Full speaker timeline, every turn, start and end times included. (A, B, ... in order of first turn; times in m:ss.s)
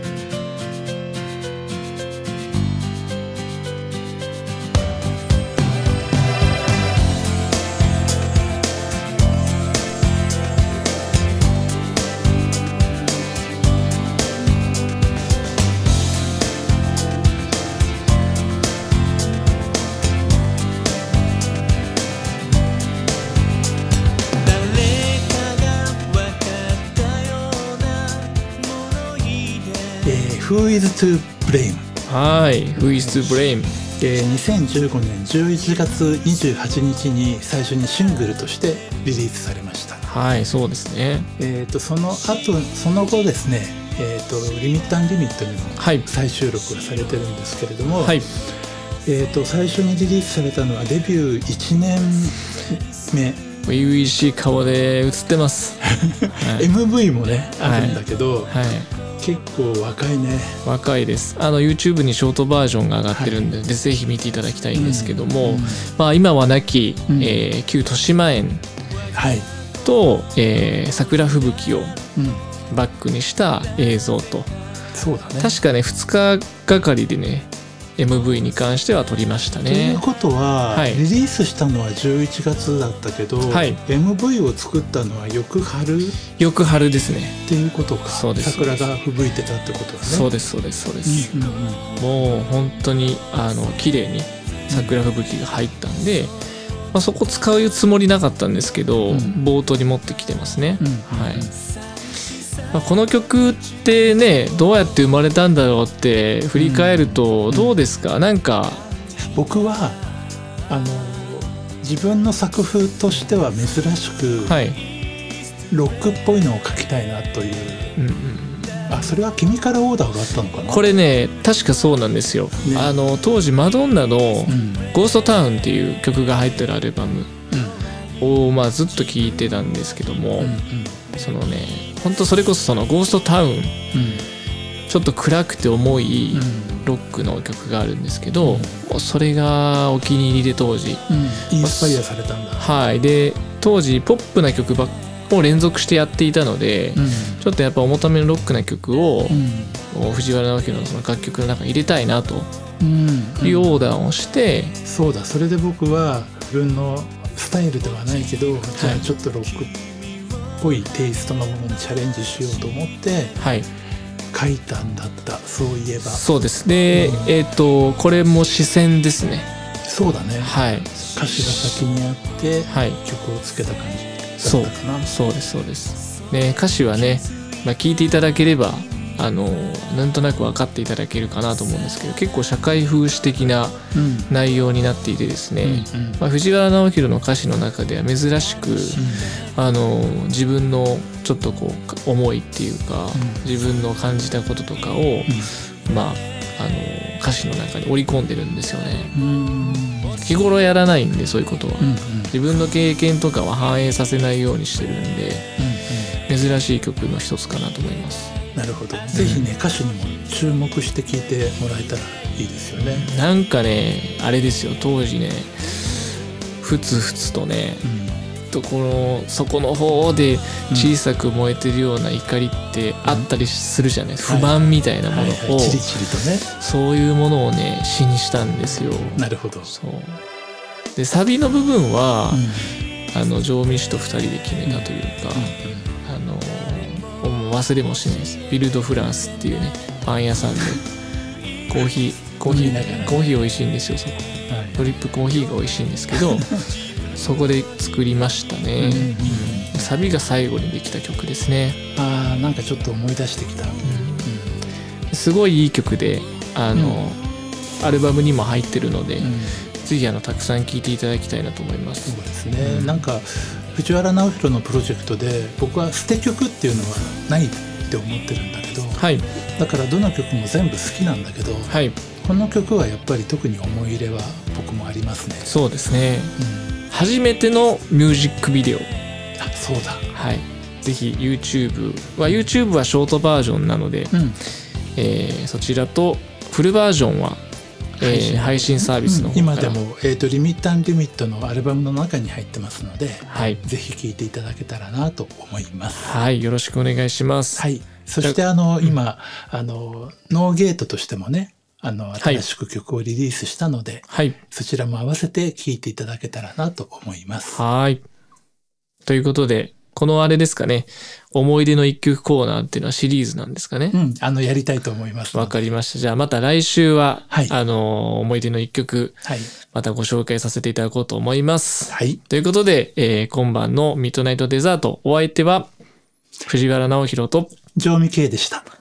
0:24.4-0:30.0 A
0:30.0-0:31.9 B
0:32.1-0:33.8 C
0:32.9-0:33.5 B
0:34.0-0:40.0 B
0:40.1-0:41.3 C
0:41.4-0:48.4 B
0:45.8-0:46.1 C
0:47.9-0:48.3 C
0:49.0-0:53.4 B
0:53.6-0:56.7 C
0:55.8-0:58.6 B
0:57.6-0:58.9 C
0:59.2-1:00.6 B
1:00.6-1:08.6 C
1:04.8-1:05.9 B
1:07.1-1:07.4 B
1:09.2-1:09.5 B
1:09.8-1:12.0 C
1:12.2-1:12.4 B
1:12.7-1:14.5 C
1:14.9-1:15.6 B
1:15.4-1:20.0 C
1:19.7-1:26.2 B
1:20.7-1:21.0 C
1:23.5-1:23.8 C
1:26.3-1:27.4 C
1:27.5-1:30.3 B
1:28.1-1:28.8 C
1:30.0-1:31.3 C
1:31.1-1:32.0 B
1:32.0-1:36.4 C
1:34.7-1:35.0 B
1:36.9-1:41.5 C
1:39.1-1:39.4 B
1:40.8-1:41.6 B
1:42.7-1:48.8 C
1:46.6-1:47.8 B
1:49.3-1:50.0 B
1:50.7-1:54.6 B
1:54.4-1:54.8 C
1:55.7-1:58.0 B
1:58.0-1:59.1 C
1:58.9-2:00.8 B
2:00.7-2:07.3 C
2:02.6-2:02.9 B
2:04.5-2:04.9 B
2:07.5-2:07.8 B
2:08.2-2:10.6 C
2:10.4-2:11.0 B
2:11.1-2:13.8 C
2:13.9-2:14.3 B
2:14.9-2:22.0 C
2:16.3-2:16.9 B
2:18.4-2:18.8 B
2:21.1-2:22.6 B
2:22.6-2:32.5 C
2:27.0-2:27.4 B
2:29.3-2:29.8 B
2:32.8-2:33.8 B
2:33.4-2:34.8 C
2:34.8-2:39.8 B
2:38.8-2:39.1 C
2:40.6-2:43.3 B
2:43.4-2:43.7 C
2:44.3-2:46.2 B
2:46.1-2:49.5 C
2:46.9-2:47.3 B
2:49.9-2:55.1 B
2:50.4-2:51.0 C
2:52.7-2:53.0 C
2:54.4-3:19.1 C
3:03.9-3:04.3 B
3:05.6-3:06.2 B
3:09.0-3:09.4 B
3:13.2-3:13.4 B
3:19.1-3:20.3 B
3:19.7-3:25.5 C
3:21.8-3:22.3 B
3:25.6-3:26.1 B
3:26.3-3:28.3 C
3:28.6-3:33.1 B
3:29.1-3:29.5 C
3:32.8-3:36.0 C
3:36.6-3:37.9 C
3:37.8-3:38.2 B
3:38.5-3:45.9 C
3:40.7-3:41.0 B
3:44.2-3:46.5 B
3:46.6-3:50.2 C
3:49.2-3:49.7 B
3:51.0-3:52.4 C
3:52.3-3:52.8 B
3:53.1-4:00.8 C
3:54.6-3:55.9 B
4:01.7-4:11.8 C
4:02.5-4:03.2 B
4:04.5-4:04.8 B
4:06.1-4:06.6 B
4:08.8-4:09.9 B
4:12.0-4:14.6 B
4:13.8-4:14.3 C
4:15.1-4:17.2 C
4:16.8-4:17.0 B
4:17.8-4:23.0 C
4:19.2-4:19.6 B
4:22.1-4:29.0 B
4:29.0-4:29.3 C
4:29.6-4:35.5 B
4:31.7-4:32.0 C
4:35.5-4:36.4 C
4:36.4-4:36.7 B
4:36.9-4:38.9 C
4:39.4-4:40.0 B
4:40.1-4:44.2 C
4:44.1-4:44.4 B
4:45.0-4:47.4 C
4:48.0-4:56.2 B
4:48.0-4:49.8 C
4:53.3-4:53.6 C
4:56.0-4:57.6 C
4:57.6-5:07.6 B
4:58.2-4:59.0 C
5:02.2-5:02.4 C
5:04.1-5:04.4 C
5:07.5-5:08.0 C
5:09.1-5:14.0 C
5:13.9-5:15.6 B
5:15.3-5:25.7 C
5:17.3-5:17.6 B
5:19.2-5:19.5 B
5:21.9-5:22.2 B
5:26.5-5:27.5 C
5:27.8-5:28.6 B